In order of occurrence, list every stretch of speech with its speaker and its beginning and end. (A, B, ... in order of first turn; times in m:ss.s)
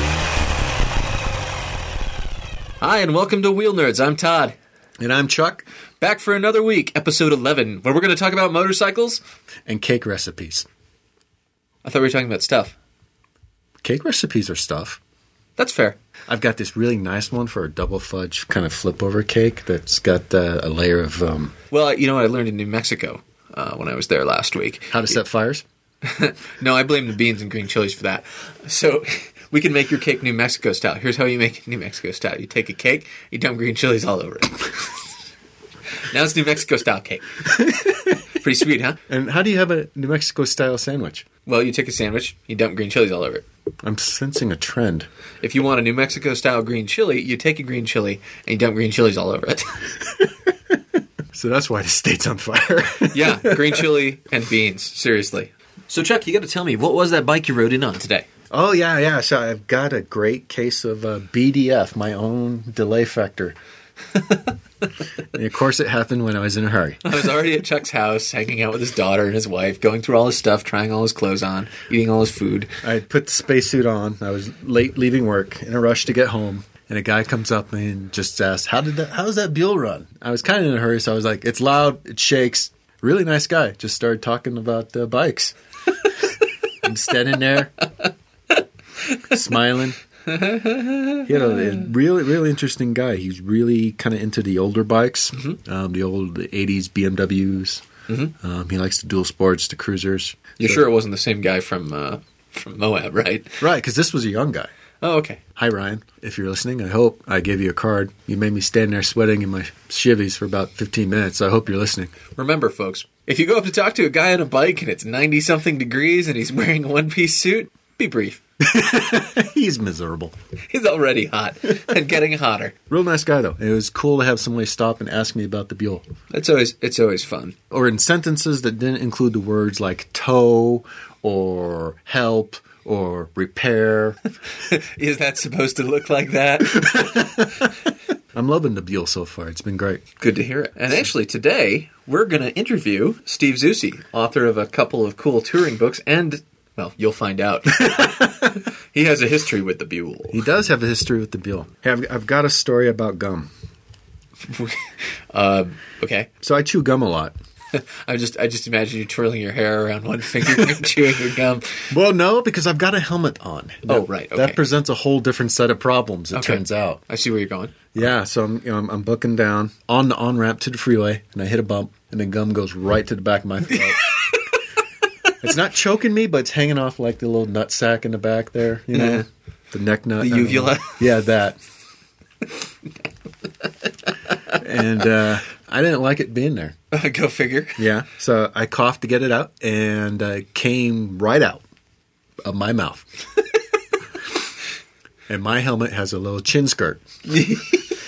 0:02.8-0:04.5 A
0:05.0-0:05.6 B
0:06.0-0:09.2 A
0:09.6-0:10.6 B
0:11.8-0:12.7 A
0:13.8-0:15.0 B
0:15.6-0:16.0 A
0:16.3-0:21.5 B
0:21.7-0:25.0 A
0:24.9-0:25.6 B
0:26.0-0:34.7 A
0:36.0-0:37.4 A
0:37.4-0:38.2 B
0:38.4-0:39.0 A
0:39.1-0:41.2 B
0:41.4-0:43.4 A
0:43.8-0:45.1 B
0:45.4-0:49.7 A
0:51.3-0:53.8 B
0:53.1-0:58.3 A
0:58.5-1:03.5 B
1:04.2-1:04.4 A
1:05.3-1:07.0 B
1:07.0-1:12.7 A
1:12.8-1:26.1 B
1:26.8-1:27.7 B
1:29.2-1:30.0 B
1:30.3-1:31.9 A
1:31.2-1:37.8 B
1:38.4-1:40.8 B
1:40.6-1:43.6 A
1:43.6-1:44.7 B
1:45.0-1:45.4 A
1:45.6-1:52.1 B
1:52.3-1:58.4 A
1:58.6-2:00.3 B
2:00.7-2:02.7 A
2:02.9-2:06.0 B
2:06.3-2:07.5 A
2:07.7-2:14.2 B
2:14.6-2:17.3 A
2:16.7-2:17.7 B
2:18.3-2:20.0 B
2:20.2-2:30.4 A
2:27.8-2:28.2 B
2:30.3-2:33.5 B
2:34.4-2:36.3 A
2:36.4-2:37.3 B
2:37.7-2:41.9 A
2:41.9-2:47.0 B
2:43.9-2:44.6 A
2:46.3-2:47.9 A
2:47.9-2:54.1 B
2:55.4-3:01.6 B
2:58.9-2:59.2 A
3:00.2-3:01.0 A
3:04.5-3:06.8 B
3:06.9-3:07.8 A
3:07.8-3:11.6 B
3:12.4-3:13.0 B
3:15.3-3:17.0 B
3:17.3-3:17.8 A